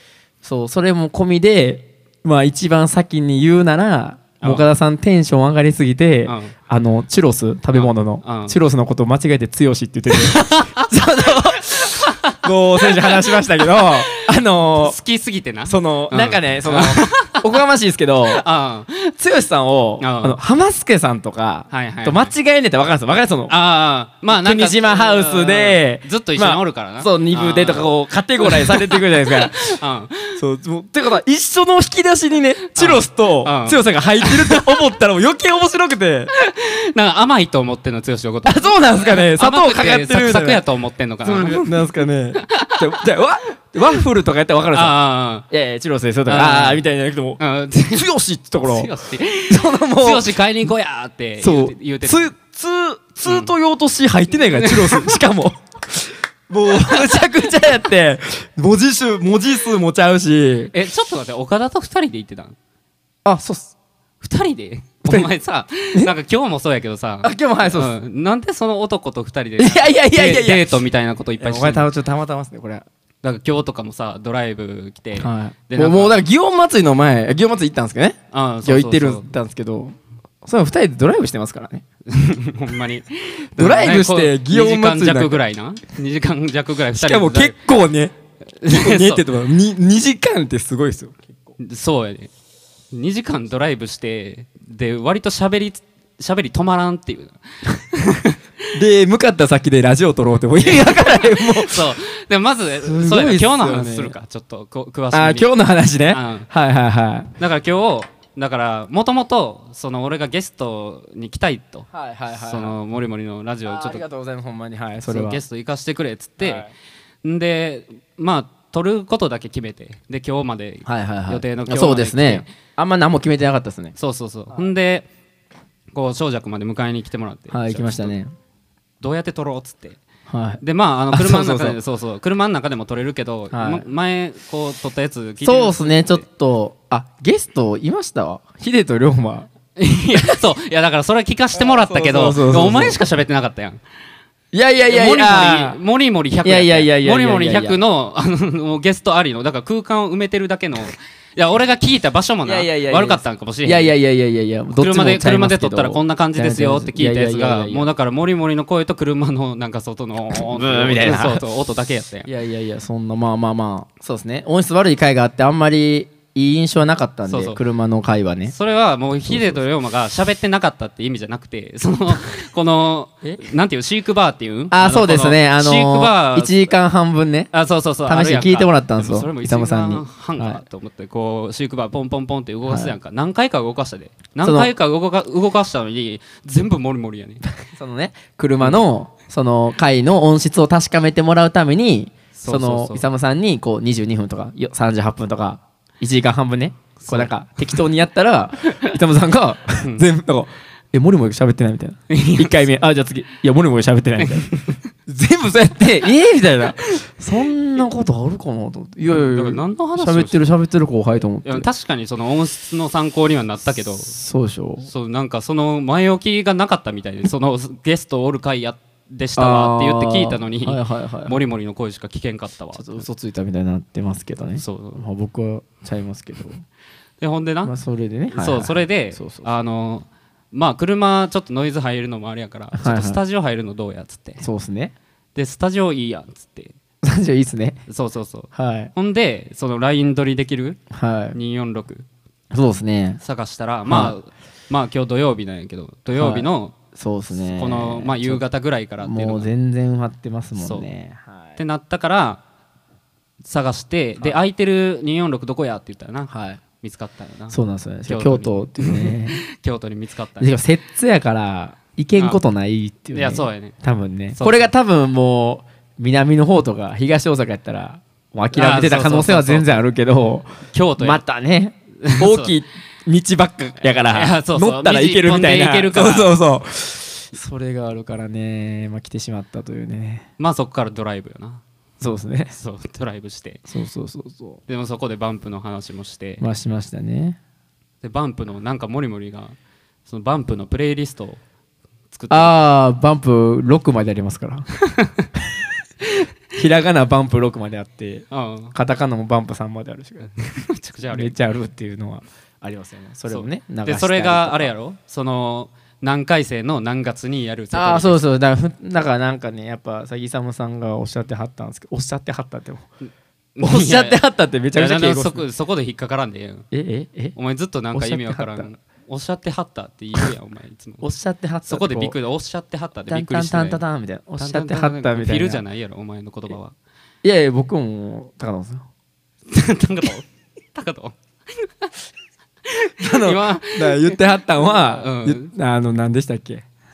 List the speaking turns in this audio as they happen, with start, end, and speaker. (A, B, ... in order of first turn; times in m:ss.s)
0:00.4-0:15.0 A
0:04.4-0:04.6 B
0:06.2-0:06.5 B
0:07.7-0:08.6 B
0:10.1-0:10.9 B
0:11.8-0:14.1 B
0:14.7-0:17.4 B
0:15.6-0:18.4 A
0:18.3-0:18.9 B
0:19.1-0:23.5 A
0:20.0-0:20.4 B
0:21.7-0:22.3 B
0:23.5-0:30.4 B
0:24.3-0:29.8 A
0:30.4-0:36.3 A
0:32.7-0:34.8 B
0:36.3-0:41.8 B
0:38.4-0:40.6 A
0:41.2-0:45.0 A
0:42.4-0:42.8 B
0:44.7-0:45.4 B
0:45.5-0:48.9 A
0:46.3-0:46.8 B
0:47.4-0:48.1 B
0:48.6-0:52.3 B
0:49.5-0:50.3 A
0:51.4-1:00.7 A
0:53.2-0:53.5 B
0:54.5-0:55.2 B
1:00.7-1:02.6 B
1:03.2-1:03.7 A
1:04.2-1:11.9 B
1:05.0-1:05.3 A
1:07.2-1:07.9 A
1:09.6-1:10.8 A
1:11.4-1:12.8 A
1:13.2-1:16.2 B
1:15.2-1:21.8 A
1:18.3-1:19.3 B
1:22.1-1:27.6 B
1:23.6-1:25.4 A
1:26.9-1:28.1 A
1:28.6-1:29.2 B
1:28.7-1:31.5 A
1:31.6-1:32.3 B
1:32.9-1:38.4 B
1:38.7-1:42.0 A
1:40.6-1:45.5 B
1:42.8-1:44.1 A
1:45.1-1:47.3 A
1:46.1-1:46.5 B
1:47.4-1:51.9 B
1:51.9-1:52.8 A
1:52.4-1:54.0 B
1:53.6-1:55.4 A
1:55.0-1:56.7 B
1:56.4-1:56.7 A
1:57.2-2:02.5 B
2:00.8-2:03.9 A
2:04.0-2:05.1 B
2:05.9-2:08.2 B
2:07.5-2:08.3 A
2:09.0-2:10.0 B
2:10.3-2:11.8 A
2:10.6-2:16.2 B
2:13.5-2:13.8 A
2:15.4-2:19.5 A
2:19.8-2:23.8 B
2:20.1-2:20.4 A
2:21.5-2:23.0 A
2:24.5-2:25.8 A
2:24.8-2:33.9 B
2:26.4-2:27.8 A
2:32.4-2:37.9 A
2:34.7-2:42.3 B
2:40.3-2:41.4 A
2:42.2-2:48.5 A
2:47.3-2:47.6 B
2:48.5-2:56.6 B
2:49.3-2:49.6 A
2:54.7-2:57.5 A
2:57.5-3:07.4 B
2:58.0-3:00.6 A
3:02.7-3:02.9 A
3:04.4-3:04.7 A
3:07.7-3:24.5 A
3:12.3-3:13.0 B
3:17.0-3:17.3 B
3:19.8-3:20.0 B
3:22.1-3:22.7 B
3:24.2-3:24.8 B
3:25.1-3:31.6 A
3:29.1-3:30.5 B
3:31.4-3:34.1 B
3:34.0-3:34.9 A
3:34.8-3:43.1 B
3:39.4-3:41.4 A
3:42.7-3:46.6 A
3:44.6-3:45.0 B
3:47.2-3:47.7 B
3:47.6-3:49.5 A
3:48.3-3:54.4 B
3:52.7-3:53.2 A
3:54.4-3:54.9 A
3:55.3-3:56.7 B
3:57.0-3:57.8 A
3:57.9-4:00.8 B
3:58.5-3:58.9 A
4:00.9-4:01.4 A
4:01.3-4:02.0 B
4:02.5-4:03.2 A
4:03.2-4:06.8 B
4:03.9-4:04.2 A
4:06.1-4:08.4 A
4:07.4-4:09.5 B
4:09.0-4:11.6 A
4:10.6-4:10.9 B
4:11.6-4:12.4 B
4:13.4-4:17.6 B
4:16.3-4:16.6 A
4:17.5-4:19.4 A
4:18.1-4:20.5 B
4:20.4-4:40.2 A
4:23.1-4:23.7 B
4:24.3-4:24.7 B
4:28.5-4:29.8 B
4:30.7-4:31.2 B
4:32.0-4:32.5 B
4:34.1-4:36.3 B
4:40.4-4:41.6 B
4:42.0-4:42.5 A
4:42.5-4:43.6 B
4:43.7-4:44.6 A
4:44.7-4:46.4 B
4:46.4-4:47.4 A
4:48.0-4:51.4 B
4:52.1-4:52.5 B
4:52.3-4:54.7 A
4:55.0-4:55.2 B
4:56.0-5:00.3 A
4:58.3-4:58.7 B
5:00.2-5:01.4 B
5:01.1-5:04.7 A
5:03.3-5:08.2 B
5:07.7-5:12.9 A
5:13.0-5:14.2 B
5:13.6-5:15.4 A
5:14.7-5:16.7 B
5:16.7-5:17.4 A
5:17.3-5:21.0 B
5:17.9-5:18.7 A
5:21.0-5:22.2 A
5:21.7-5:23.8 B
5:23.1-5:25.6 A
5:24.4-5:26.7 B
5:27.2-5:28.9 A
5:29.5-5:31.9 B
5:32.7-5:35.5 B
5:33.0-5:36.6 A